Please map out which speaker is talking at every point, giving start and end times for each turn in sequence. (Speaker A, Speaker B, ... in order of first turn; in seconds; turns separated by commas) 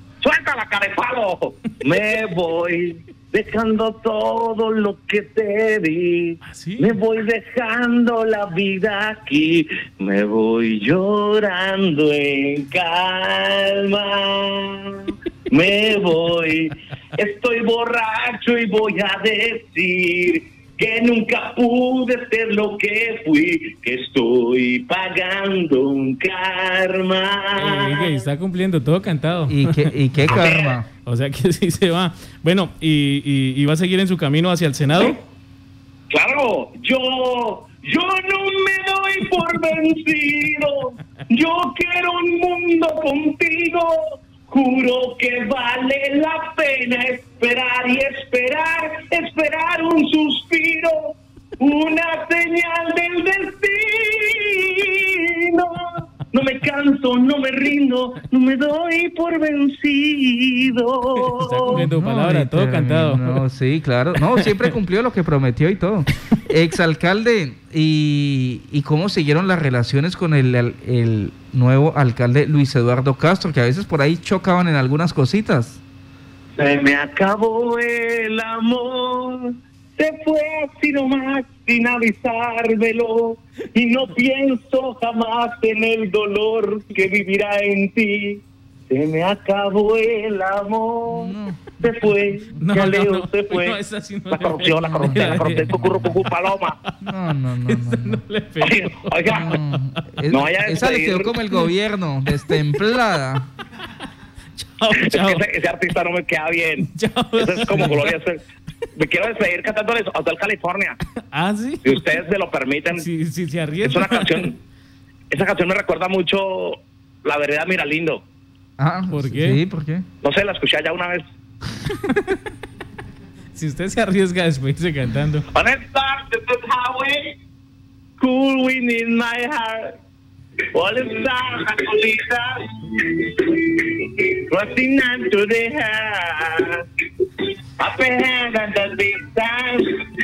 Speaker A: 0.2-28.2, Speaker B: 6.4-7.0, Speaker B: 27.6-29.9, Speaker C: 29.5-30.9, Speaker A: 30.3-30.8, Speaker B: 31.0-35.2, Speaker A: 36.1-61.9, Speaker B: 61.2-63.4, Speaker C: 61.7-75.8, Speaker B: 64.2-64.6, Speaker A: 76.6-93.8, Speaker C: 91.1-92.6, Speaker B: 92.6-96.2, Speaker A: 94.3-96.8, Speaker C: 94.8-95.9, Speaker C: 97.0-98.2, Speaker B: 97.6-100.0, Speaker A: 98.6-99.5, Speaker C: 99.3-103.5, Speaker A: 100.3-101.4, Speaker B: 104.5-105.4, Speaker A: 104.9-108.4, Speaker B: 106.8-108.1, Speaker A: 108.9-111.0, Speaker B: 111.3-112.0, Speaker A: 111.8-113.1, Speaker B: 112.9-114.5, Speaker A: 113.8-114.6, Speaker A: 115.3-118.2, Speaker C: 118.8-120.0, Speaker B: 119.1-119.6, Speaker A: 120.2-121.2, Speaker B: 122.0-122.4, Speaker B: 123.5-125.5, Speaker A: 125.5-127.3, Speaker A: 128.2-129.9, Speaker A: 130.7-140.0